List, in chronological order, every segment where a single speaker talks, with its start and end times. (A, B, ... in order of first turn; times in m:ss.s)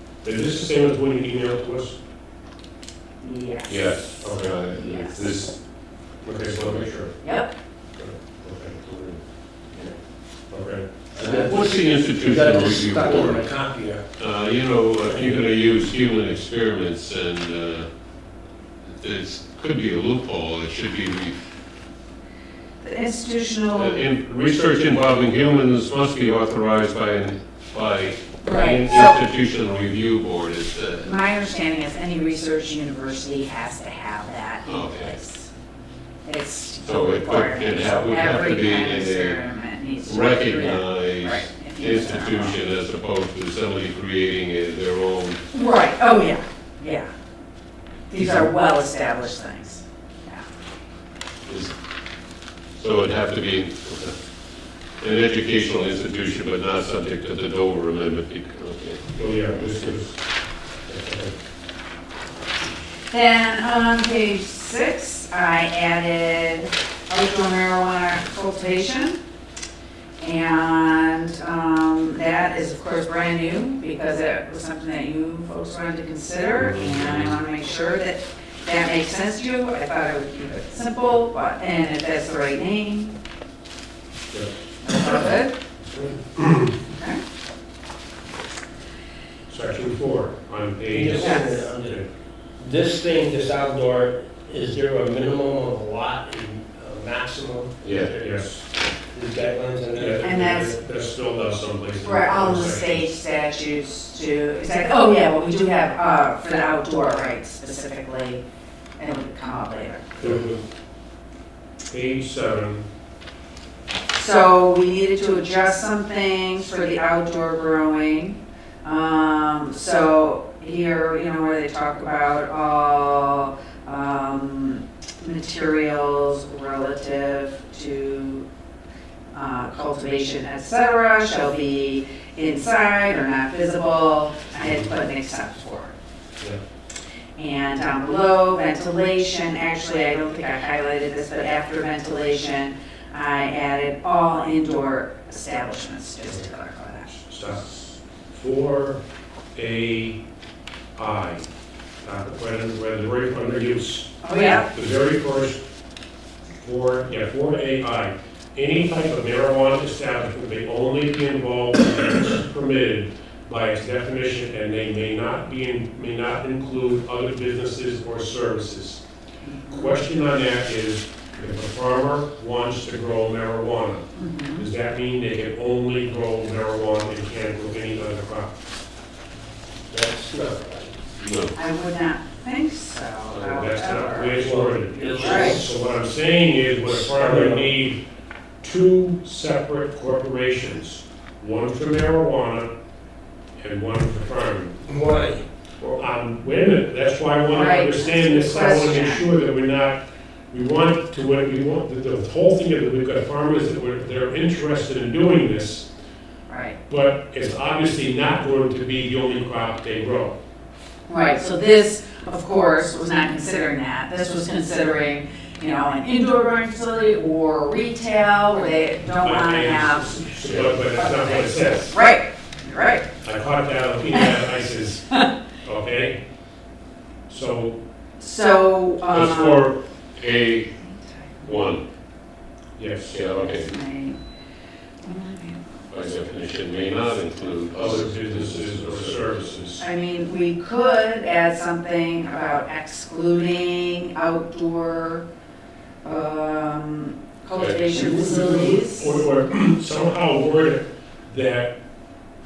0:00.2-0:02.0 A
0:03.2-0:04.0 B
0:03.7-0:05.6 C
0:04.2-0:04.6 A
0:04.7-0:05.3 B
0:06.2-0:07.2 A
0:07.2-0:07.5 B
0:08.0-0:08.9 A
0:10.5-0:10.9 A
0:11.1-0:14.0 D
0:11.2-0:13.4 C
0:14.2-0:17.9 C
0:15.0-0:15.4 D
0:18.8-0:21.4 C
0:22.8-0:24.0 B
0:23.7-0:31.1 C
0:28.4-0:29.2 B
0:31.0-0:35.5 B
0:34.6-0:35.2 C
0:36.2-0:42.6 B
0:36.8-0:39.4 C
0:40.0-0:45.4 C
0:45.5-0:47.1 B
0:48.1-0:50.4 B
0:51.4-0:51.7 C
0:52.8-0:54.2 C
0:55.0-0:59.1 C
0:59.1-1:00.2 A
1:00.9-1:01.3 A
1:03.1-1:09.2 B
1:10.2-1:23.2 B
1:16.6-1:17.4 C
1:24.3-1:26.8 A
1:24.8-1:25.5 B
1:26.9-1:27.2 B
1:29.5-1:32.0 A
1:30.9-1:32.1 D
1:31.2-1:31.7 B
1:32.6-1:38.5 D
1:37.8-1:38.1 C
1:37.9-1:38.6 A
1:39.1-1:40.2 D
1:39.9-1:43.1 A
1:40.2-1:40.7 B
1:42.0-1:48.4 B
1:49.0-1:50.2 B
1:50.2-1:50.6 A
1:51.9-1:52.8 A
1:54.1-2:08.5 B
2:09.3-2:15.9 B
2:14.6-2:14.9 A
2:17.4-2:27.2 B
2:27.3-2:29.0 A
2:29.5-2:30.2 A
2:31.0-2:31.5 A
2:32.0-2:35.6 A
2:34.2-2:34.7 B
2:36.6-2:49.0 A
2:49.4-2:50.0 B
2:49.7-2:58.5 A
2:54.1-2:54.6 B
2:59.9-3:01.0 D
3:01.2-3:01.5 C
3:01.5-3:04.4 B
3:03.3-3:08.0 A
3:04.4-3:05.6 D
3:05.1-3:05.6 B
3:06.8-3:07.7 D
3:08.6-3:12.7 A
3:13.6-3:14.8 A
3:14.9-3:16.0 D
3:16.0-3:25.9 A
3:17.5-3:19.3 B
3:26.5-3:26.8 B
3:26.9-3:30.4 A
3:31.1-3:43.1 B
3:39.1-3:41.9 A
3:43.2-3:45.1 A
3:44.1-3:44.5 B
3:45.6-3:46.2 A
3:47.3-3:47.8 A
3:48.2-3:49.7 B
3:49.1-3:49.8 A
3:50.2-3:50.7 C
3:50.8-3:51.7 B
3:51.4-3:51.8 C
3:52.8-3:53.2 A
3:53.1-3:53.7 C
3:53.4-3:54.2 B
3:55.0-3:55.9 B
3:55.9-3:59.8 C
3:57.7-3:59.8 A
3:59.8-4:05.2 B
4:06.0-4:09.2 B
4:07.6-4:11.7 A